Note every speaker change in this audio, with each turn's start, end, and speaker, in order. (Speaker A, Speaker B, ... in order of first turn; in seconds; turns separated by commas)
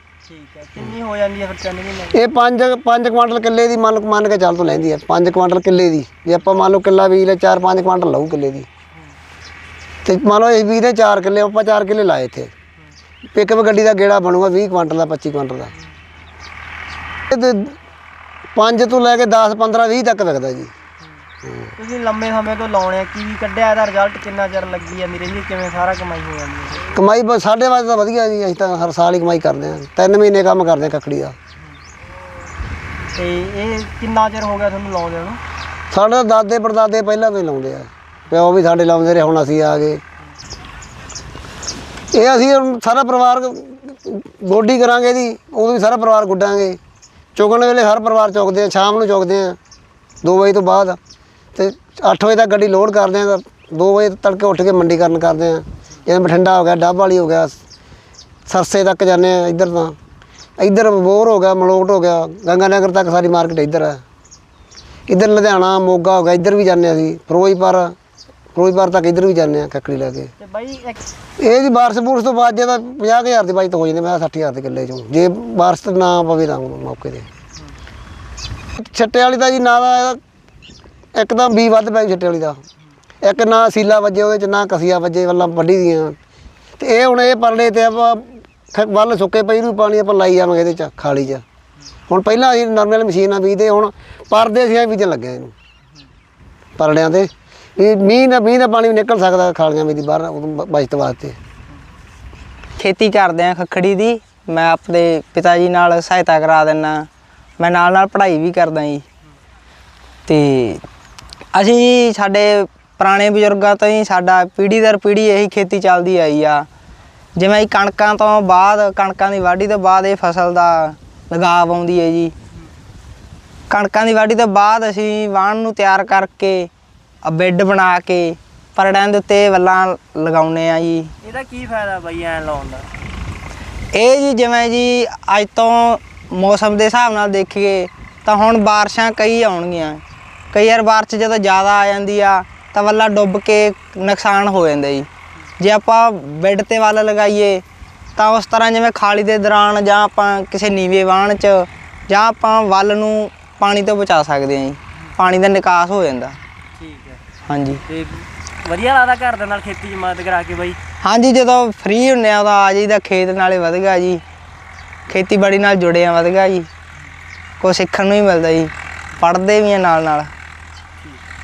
Speaker A: 0.3-2.2, Speaker B: 2.1-8.7, Speaker B: 10.0-12.5, Speaker B: 13.3-15.7, Speaker B: 17.3-17.8, Speaker B: 18.5-20.7, Speaker A: 21.8-26.9, Speaker B: 26.9-31.4, Speaker A: 33.1-35.4, Speaker B: 35.9-40.0, Speaker B: 42.1-46.8, Speaker B: 47.4-49.6, Speaker B: 50.2-51.0, Speaker B: 51.5-57.6, Speaker B: 58.5-60.0, Speaker B: 60.6-64.0, Speaker B: 65.1-67.9, Speaker B: 68.5-70.3, Speaker A: 70.4-71.0, Speaker B: 71.4-77.3, Speaker B: 78.8-80.2, Speaker B: 81.1-82.6, Speaker B: 83.2-86.2, Speaker B: 86.8-91.4, Speaker B: 92.1-95.5, Speaker B: 96.8-101.3, Speaker C: 102.8-107.1, Speaker C: 107.6-109.0, Speaker C: 110.3-110.8, Speaker C: 111.5-116.7, Speaker C: 117.3-122.3, Speaker C: 123.7-126.7, Speaker C: 127.2-131.1, Speaker A: 131.2-132.9, Speaker C: 133.9-145.1, Speaker C: 145.6-147.6, Speaker C: 148.2-156.4, Speaker A: 156.8-157.3, Speaker C: 157.5-157.8, Speaker A: 157.8-160.8, Speaker C: 161.0-164.2, Speaker C: 165.1-166.7, Speaker C: 167.6-170.3